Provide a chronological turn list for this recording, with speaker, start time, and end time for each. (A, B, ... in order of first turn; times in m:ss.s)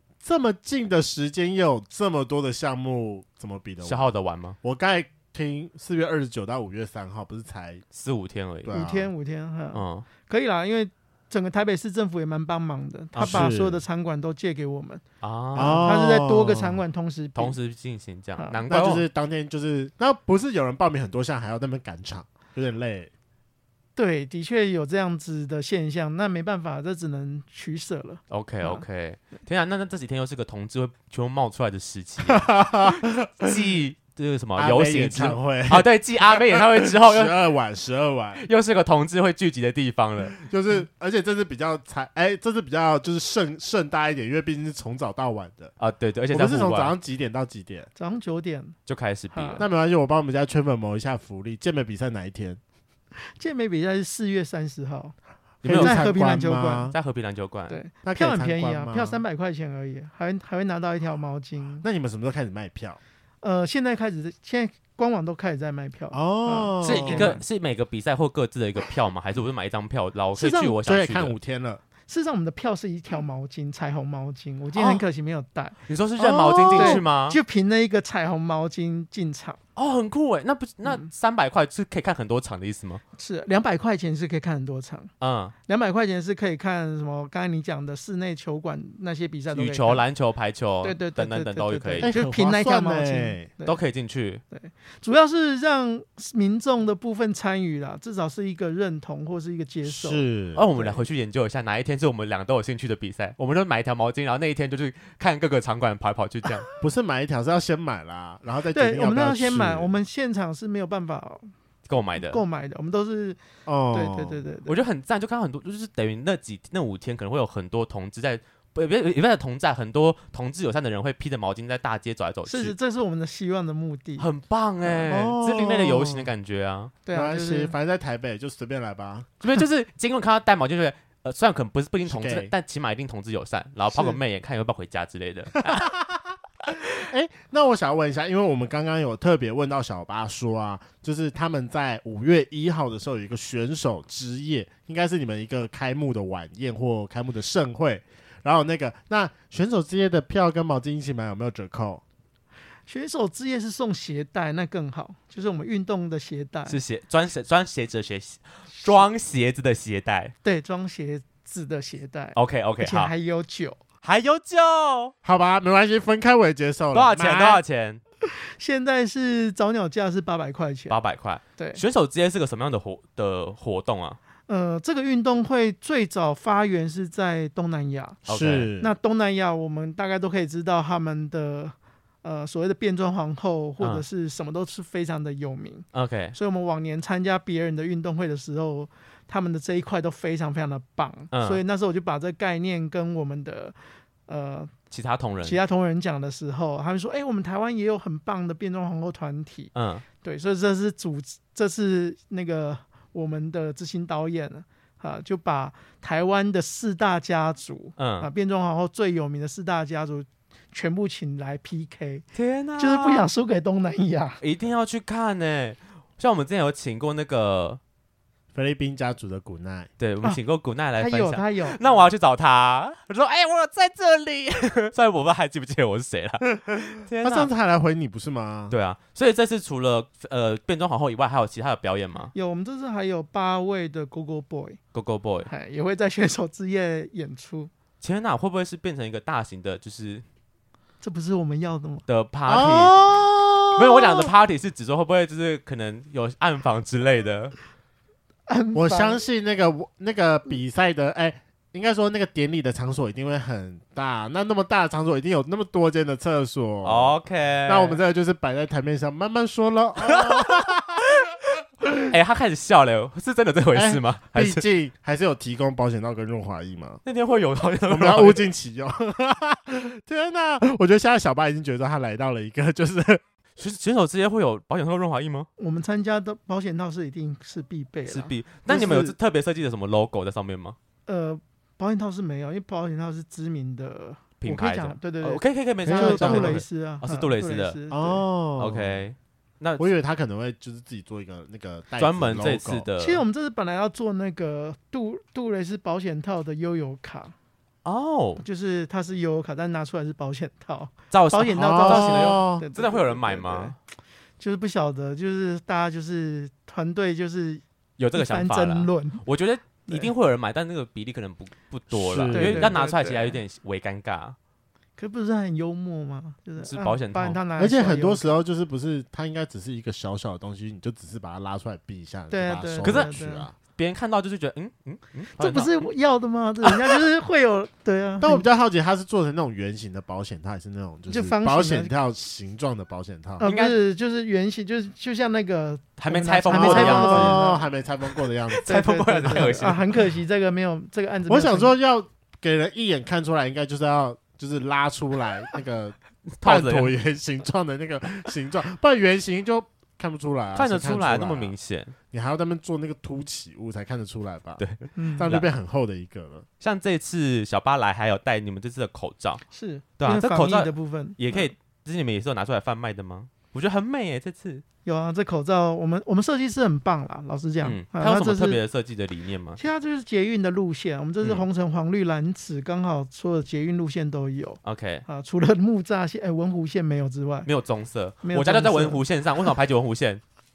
0:00.2-0:04.1 A
0:03.8-0:04.6 B
0:04.6-0:07.8 A
0:07.9-0:08.7 B
0:08.6-0:09.1 A
0:08.7-0:15.0 C
0:09.7-0:10.1 B
0:13.1-0:13.8 A
0:15.2-0:15.9 B
0:15.6-0:16.8 A
0:15.6-0:17.6 C
0:17.4-0:19.0 B
0:18.4-0:18.6 C
0:18.7-0:23.1 A
0:24.0-0:28.8 C
0:28.3-0:37.4 B
0:32.2-0:33.6 A
0:34.6-0:38.4 A
0:38.4-0:40.4 B
0:40.4-0:45.7 A
0:45.8-0:46.9 B
0:46.3-0:47.9 A
0:48.0-0:48.8 C
0:48.9-0:49.6 B
0:49.3-0:49.7 C
0:49.6-0:52.6 A
0:53.2-0:55.2 C
0:55.6-0:56.1 B
0:55.6-0:57.0 A
0:55.7-0:56.9 C
0:56.9-0:57.8 B
0:57.7-1:01.8 C
0:58.0-0:59.2 A
1:01.8-1:03.0 A
1:03.4-1:07.4 C
1:06.1-1:07.4 A
1:06.8-1:11.4 B
1:10.4-1:10.8 C
1:10.9-1:11.8 A
1:12.1-1:15.8 C
1:15.9-1:17.4 B
1:16.2-1:17.0 A
1:16.7-1:19.6 C
1:19.8-1:23.0 B
1:23.2-1:25.1 C
1:25.2-1:25.5 B
1:25.7-1:30.0 C
1:29.5-1:32.1 B
1:30.8-1:33.8 C
1:32.0-1:33.5 A
1:33.6-1:34.4 B
1:34.5-1:41.0 C
1:39.8-1:40.6 A
1:40.6-1:46.7 B
1:46.8-1:49.9 A
1:48.7-1:51.5 C
1:51.9-1:52.4 B
1:52.2-1:53.4 C
1:53.7-1:54.4 A
1:53.9-1:54.8 C
1:54.7-2:02.8 B
2:02.4-2:04.3 C
2:04.2-2:06.9 B
2:04.8-2:05.1 C
2:05.1-2:06.3 A
2:07.0-2:07.7 C
2:07.1-2:09.4 A
2:09.4-2:15.9 B
2:12.0-2:12.5 A
2:13.9-2:14.2 C
2:15.7-2:16.2 A
2:17.0-2:32.0 A
2:32.9-2:36.8 C
2:36.7-2:40.3 B
2:40.4-2:43.8 C
2:42.4-2:43.1 B
2:44.0-2:45.1 B
2:45.2-2:47.6 A
2:46.9-2:48.0 B
2:48.2-2:51.0 C
2:50.9-2:54.2 B
2:51.6-2:51.8 C
2:54.5-2:58.2 C
2:58.3-2:58.7 B
2:58.3-2:58.9 A
2:58.8-3:14.7 C
3:03.8-3:04.0 B
3:05.9-3:06.4 B
3:11.3-3:11.6 B
3:14.9-3:15.6 B
3:15.4-3:32.2 C
3:19.8-3:20.0 B
3:28.0-3:28.3 B
3:32.4-3:33.3 B
3:32.8-3:34.4 C
3:34.4-3:37.8 B
3:38.5-3:39.9 A
3:40.0-3:47.5 B
3:41.0-3:41.8 C
3:47.2-3:48.8 A
3:48.7-3:52.3 B
3:52.3-3:54.8 C
3:54.9-3:55.5 B
3:55.4-3:57.7 C
3:58.0-4:00.2 B
4:01.0-4:02.0 C
4:02.1-4:03.0 B
4:02.5-4:04.3 A
4:03.8-4:07.6 B
4:08.5-4:09.2 C
4:08.7-4:17.2 A
4:16.8-4:18.0 B
4:17.7-4:21.0 A
4:20.1-4:20.5 B
4:22.0-4:24.6 B
4:23.7-4:27.0 A
4:27.0-4:28.5 B
4:27.9-4:33.2 A
4:33.6-4:35.5 B
4:35.6-4:38.3 C
4:38.1-4:40.8 B
4:38.7-4:39.1 A
4:41.1-4:48.2 C
4:44.4-4:47.8 B
4:45.8-4:46.6 A
4:47.9-4:49.0 A
4:48.6-4:49.9 B
4:49.8-4:52.9 A
4:52.0-4:53.2 B
4:53.0-4:57.3 C
4:57.8-4:58.4 B
4:58.4-5:03.8 C
5:01.1-5:03.7 B
5:01.6-5:02.6 A
5:04.4-5:07.6 C
5:08.0-5:14.4 B
5:08.1-5:09.2 C
5:09.9-5:10.1 C
5:11.9-5:12.8 A
5:12.3-5:13.4 C
5:15.0-5:18.3 C
5:16.6-5:17.4 B
5:17.6-5:23.5 A
5:22.3-5:23.5 C
5:22.8-5:23.1 B
5:23.7-5:25.8 B
5:25.4-5:28.4 C
5:26.6-5:27.0 B
5:28.2-5:33.4 A
5:31.1-5:31.9 C
5:33.4-5:37.6 C
5:33.4-5:33.8 B
5:36.0-5:37.4 B
5:36.5-5:38.7 A
5:38.5-5:40.0 B
5:38.7-5:41.7 C
5:39.3-5:39.6 A
5:41.3-5:51.6 A
5:46.4-5:46.9 B
5:50.6-5:52.0 B
5:52.1-5:54.6 A
5:54.6-5:55.4 B
5:55.0-5:55.3 C
5:55.2-5:56.4 A
5:56.6-5:59.4 B
5:59.5-6:01.5 C
6:00.0-6:04.6 B
6:04.8-6:08.6 C
6:07.6-6:09.6 B
6:09.6-6:17.5 C
6:14.6-6:15.0 B
6:17.4-6:20.2 B
6:18.2-6:19.5 C